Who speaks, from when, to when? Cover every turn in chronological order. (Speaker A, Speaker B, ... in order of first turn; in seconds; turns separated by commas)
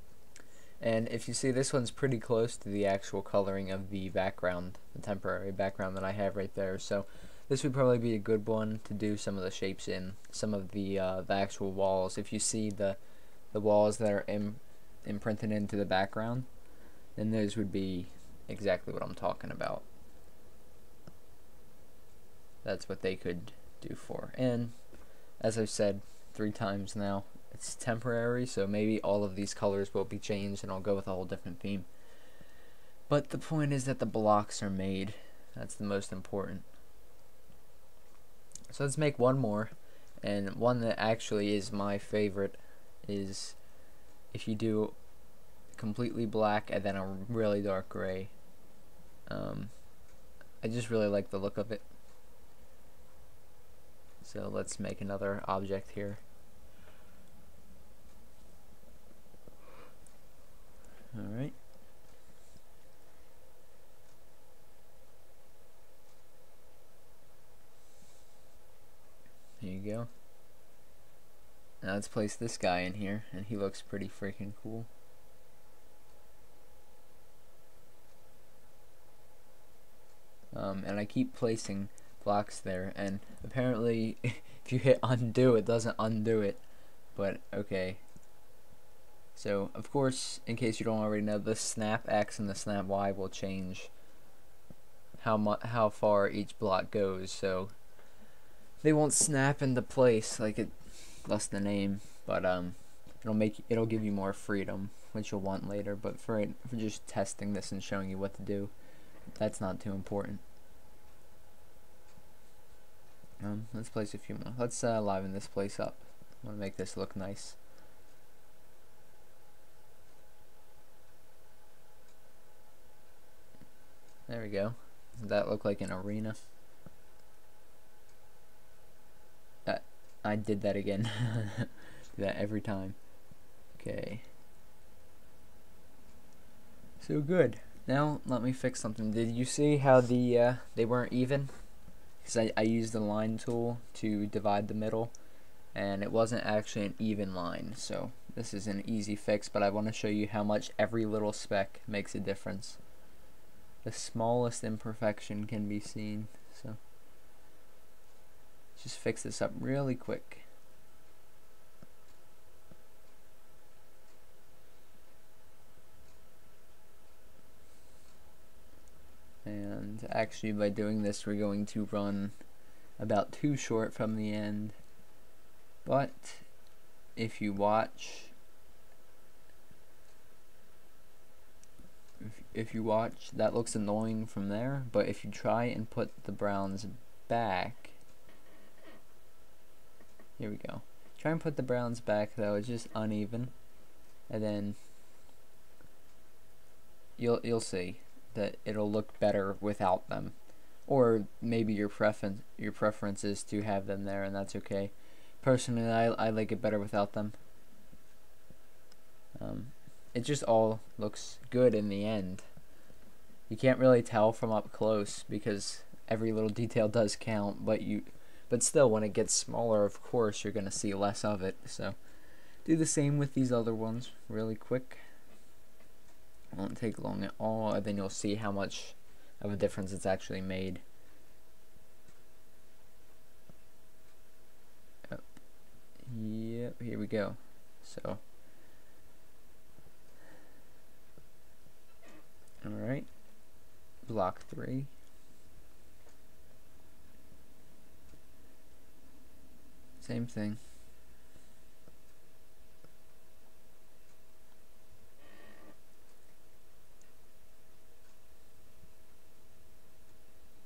Speaker A: 0.8-13.0, Speaker A: 13.5-16.5, Speaker A: 17.2-19.9, Speaker A: 22.6-24.7, Speaker A: 25.4-31.9, Speaker A: 33.1-36.7, Speaker A: 38.7-43.6, Speaker A: 44.3-45.0, Speaker A: 45.7-48.3, Speaker A: 49.3-49.7, Speaker A: 50.6-51.9, Speaker A: 54.2-56.2, Speaker A: 61.1-61.5, Speaker A: 69.6-70.1, Speaker A: 71.8-74.9, Speaker A: 80.5-86.6, Speaker A: 87.2-88.0, Speaker A: 89.3-93.9, Speaker A: 95.2-97.7, Speaker A: 98.8-108.7, Speaker A: 109.4-110.4, Speaker A: 113.4-117.6, Speaker A: 124.3-126.4, Speaker A: 129.7-133.0, Speaker A: 133.7-134.2, Speaker A: 137.0-141.5, Speaker A: 142.2-145.1, Speaker A: 145.7-152.8, Speaker A: 153.8-156.8, Speaker A: 158.8-160.4, Speaker A: 169.4-172.3, Speaker A: 173.0-174.8, Speaker A: 175.8-176.5, Speaker A: 177.2-178.3, Speaker A: 182.2-187.9, Speaker A: 190.4-193.5, Speaker A: 194.3-194.8, Speaker A: 197.2-200.3, Speaker A: 200.9-207.3, Speaker A: 209.4-212.4, Speaker A: 213.5-222.0, Speaker A: 222.6-225.0, Speaker A: 226.5-230.8, Speaker A: 236.0-238.2, Speaker A: 242.6-243.1, Speaker A: 244.0-244.9, Speaker A: 250.0-250.6